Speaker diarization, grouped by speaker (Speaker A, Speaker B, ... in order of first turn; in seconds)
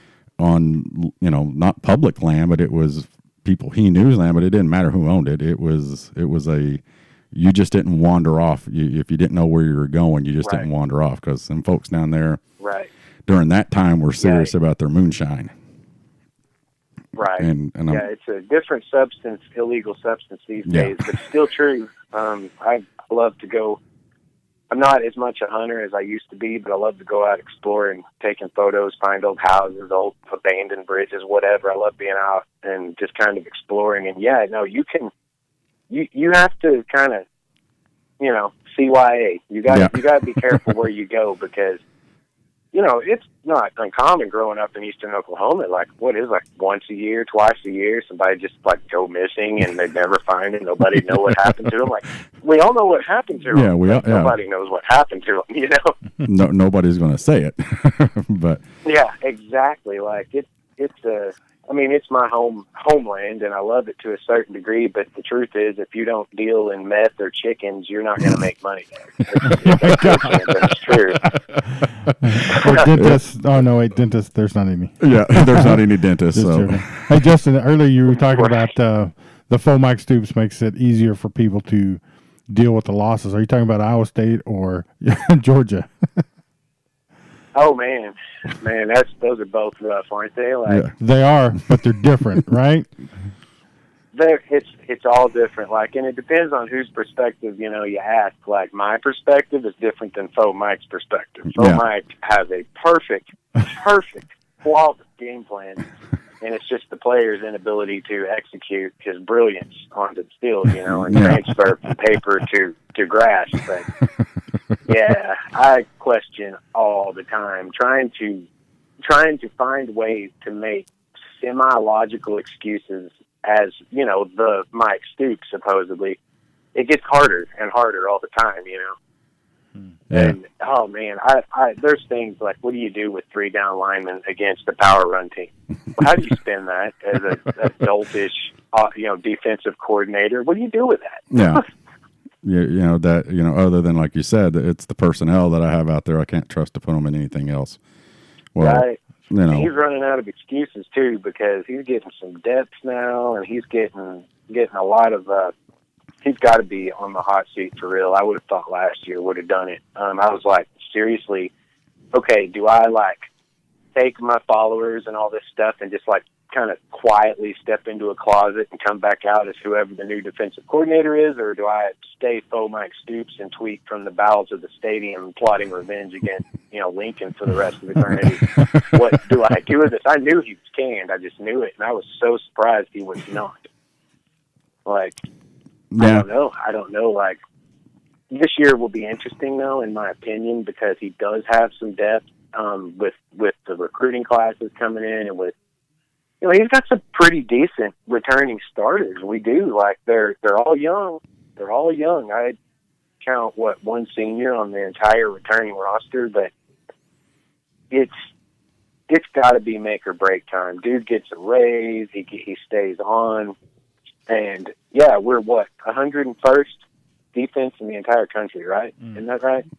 Speaker A: 0.4-12.4, 13.3-15.5, 17.4-18.1, 20.7-21.0, 39.7-40.7, 51.0-51.8, 53.5-54.4, 56.2-58.6, 70.0-70.4, 72.9-73.2, 75.0-77.2, 90.7-90.9, 101.5-101.8, 110.9-112.0, 130.1-130.4, 141.3-141.6, 142.4-147.8, 148.6-149.7, 178.6-179.0, 185.9-186.2
Speaker B: 10.4-10.7, 12.6-12.9, 14.2-14.5, 17.2-23.8, 24.7-35.1, 35.9-37.2, 38.2-41.8, 42.7-56.0, 58.9-71.3, 72.5-72.8, 87.5-90.9, 94.1-105.9, 106.4-113.9, 114.9-118.5, 119.0-120.9, 121.4-126.2, 126.8-129.0, 130.1-141.6, 148.6-149.0, 149.5-155.5, 156.2-161.5, 162.1-163.3, 163.9-183.7, 184.9-185.2, 186.0-187.4, 188.3-195.5, 196.4-202.6, 203.2-206.5, 209.1-213.6, 214.3-216.8, 217.3-219.7
Speaker C: 69.7-70.2, 72.2-75.8, 76.3-86.2, 91.0-92.9